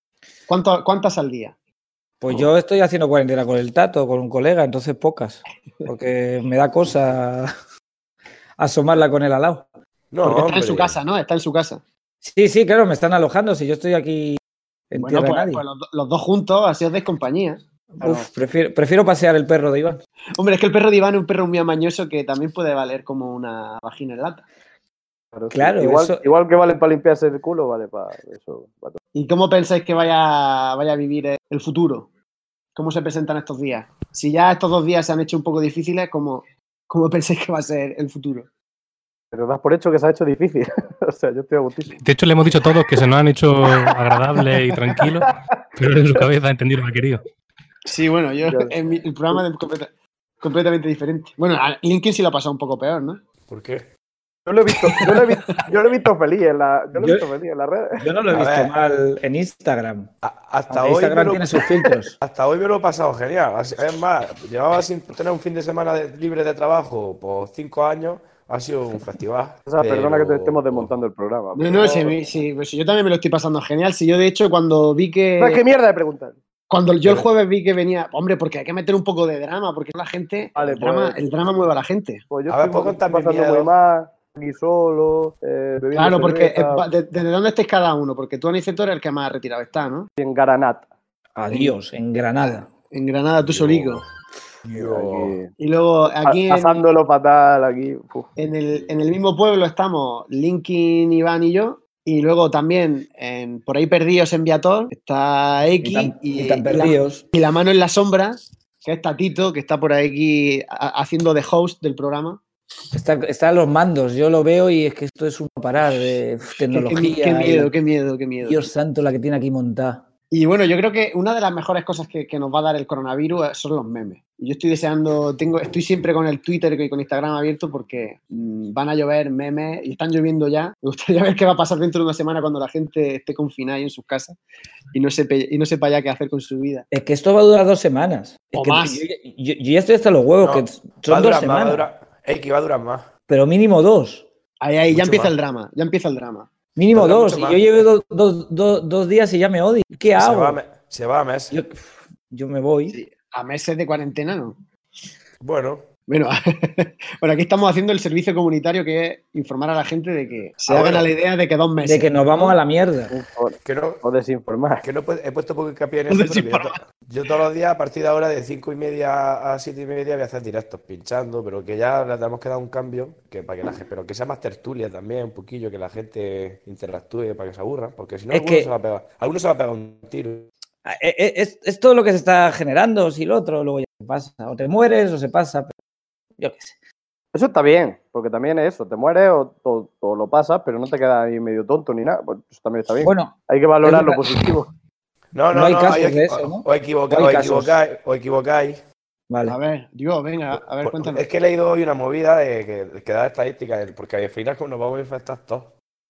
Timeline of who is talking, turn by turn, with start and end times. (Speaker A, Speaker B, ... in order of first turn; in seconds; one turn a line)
Speaker A: 0.5-1.5
Speaker B: 2.2-7.5
Speaker B: 8.6-9.7
Speaker C: 10.1-11.0
Speaker A: 10.2-11.8
Speaker B: 12.2-15.6
Speaker A: 14.9-17.6
Speaker B: 18.0-20.0
Speaker A: 20.4-24.4
Speaker D: 25.3-29.0
Speaker B: 25.5-26.3
Speaker A: 29.1-32.1
Speaker A: 32.8-38.5
Speaker D: 39.3-42.0
Speaker E: 42.0-47.2
Speaker D: 44.9-45.4
Speaker A: 47.9-49.9
Speaker A: 50.4-53.2
Speaker C: 53.5-53.9
Speaker D: 54.5-58.0
Speaker B: 57.0-57.3
Speaker B: 58.0-60.1
Speaker C: 58.3-58.7
Speaker C: 60.2-70.9
Speaker B: 60.7-62.2
Speaker D: 69.7-72.2
Speaker A: 71.6-75.6
Speaker D: 75.4-76.4
Speaker A: 76.7-82.2
Speaker C: 77.0-77.3
Speaker D: 80.6-81.2
Speaker D: 82.3-86.9
Speaker C: 82.5-83.7
Speaker A: 85.9-90.1
Speaker D: 90.2-90.9
Speaker B: 91.4-92.7
Speaker A: 92.4-94.0
Speaker C: 93.4-94.1
Speaker C: 94.7-95.4
Speaker D: 94.7-95.5
Speaker A: 95.6-96.8
Speaker D: 96.3-98.3
Speaker A: 98.4-112.4
Speaker B: 105.8-107.2
Speaker B: 112.9-117.7
Speaker A: 115.9-116.1
Speaker A: 116.7-118.7
Speaker B: 118.4-120.0
Speaker A: 120.3-134.4
Speaker A: 134.9-136.9
Speaker B: 136.9-141.8
Speaker A: 138.5-139.0
Speaker C: 140.4-143.1
Speaker B: 143.3-144.3
Speaker A: 144.6-146.5
Speaker C: 144.9-145.3
Speaker B: 146.8-150.6
Speaker C: 146.9-147.8
Speaker C: 150.2-151.6
Speaker B: 151.5-153.0
Speaker A: 152.9-154.6
Speaker C: 155.4-155.9
Speaker A: 156.1-162.5
Speaker C: 160.7-161.1
Speaker B: 161.8-163.1
Speaker D: 163.1-164.8
Speaker C: 163.6-164.0
Speaker C: 164.8-180.5
Speaker A: 166.1-166.8
Speaker B: 178.3-178.7
Speaker B: 180.8-185.7
Speaker B: 186.4-186.8
Speaker D: 187.3-194.7
Speaker B: 193.0-194.6
Speaker C: 195.3-198.8
Speaker B: 195.5-197.8
Speaker B: 199.3-199.6
Speaker A: 199.5-201.3
Speaker C: 200.5-205.7